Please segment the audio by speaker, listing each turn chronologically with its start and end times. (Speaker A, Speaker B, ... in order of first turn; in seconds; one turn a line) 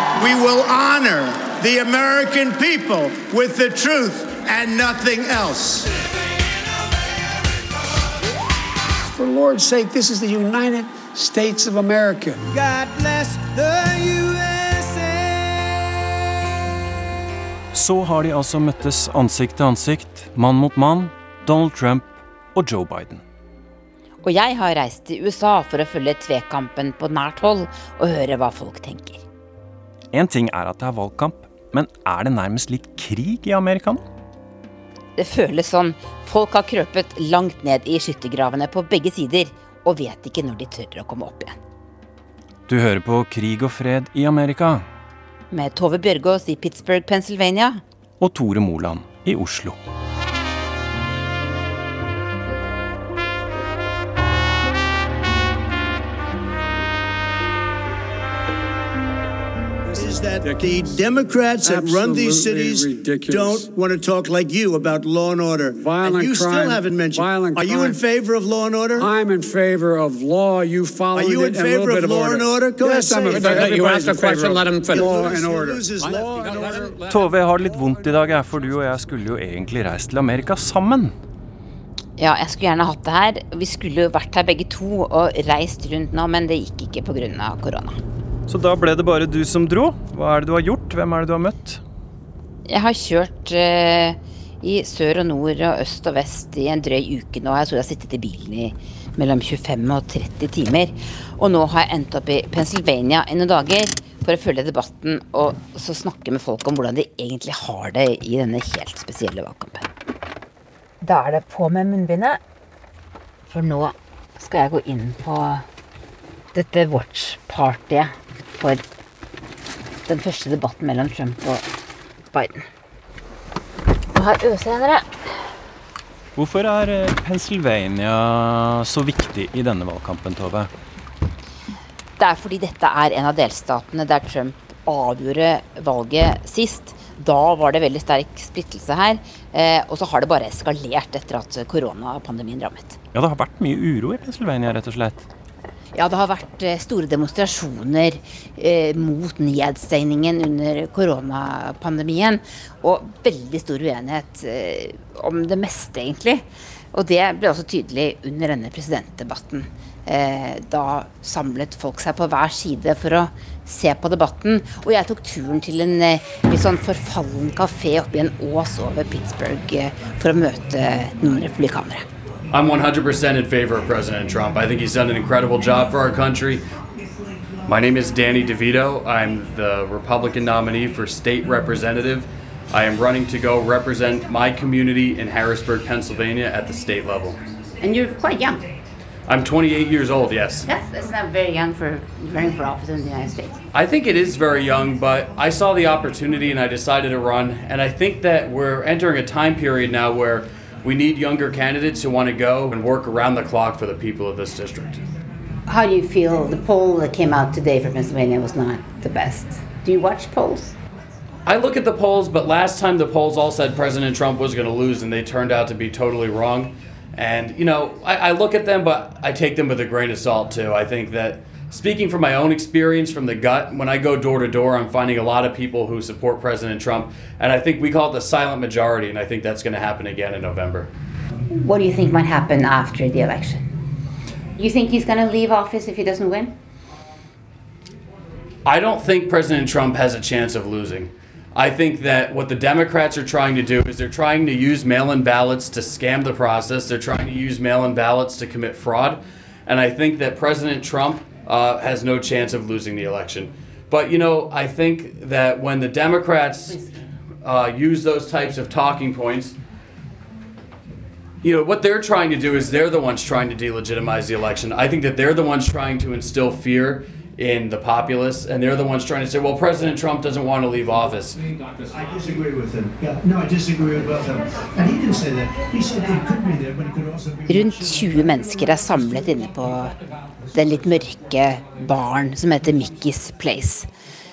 Speaker A: 0.1-5.9
Speaker B: 9.1-12.4
Speaker A: 12.5-15.1
Speaker C: 17.7-23.2
Speaker D: 24.2-29.2
Speaker C: 30.1-34.0
Speaker D: 35.2-41.5
Speaker C: 42.7-44.9
Speaker D: 45.5-47.8
Speaker C: 48.2-49.8
Speaker A: 59.9-69.1
Speaker B: 59.9-61.0
Speaker B: 61.6-63.7
Speaker B: 65.7-68.0
Speaker B: 68.9-76.8
Speaker A: 71.1-76.9
Speaker E: 76.0-77.3
Speaker F: 76.6-79.0
Speaker C: 77.1-81.1
Speaker D: 82.2-88.0
Speaker C: 88.5-91.8
Speaker D: 92.7-109.8
Speaker D: 111.0-112.4
Speaker D: 113.5-115.6
Speaker D: 116.5-118.8
Speaker D: 120.1-121.7
Speaker D: 122.3-122.6
Speaker D: 124.1-125.1
Speaker C: 126.3-130.7
Speaker D: 132.2-143.0
Speaker C: 143.1-145.2
Speaker D: 145.9-172.1
Speaker E: 172.5-176.6
Speaker F: 176.9-178.4
Speaker E: 177.7-187.4
Speaker D: 187.8-188.7
Speaker E: 189.3-190.7
Speaker D: 190.7-193.6
Speaker E: 193.7-205.0
Speaker D: 205.7-210.7
Speaker E: 211.4-230.9
Speaker D: 231.5-233.7
Speaker D: 234.6-236.5
Speaker E: 238.6-256.8
Speaker E: 257.4-259.6
Speaker E: 261.4-271.4
Speaker F: 271.9-279.4
Speaker D: 277.4-279.9
Speaker D: 280.5-283.9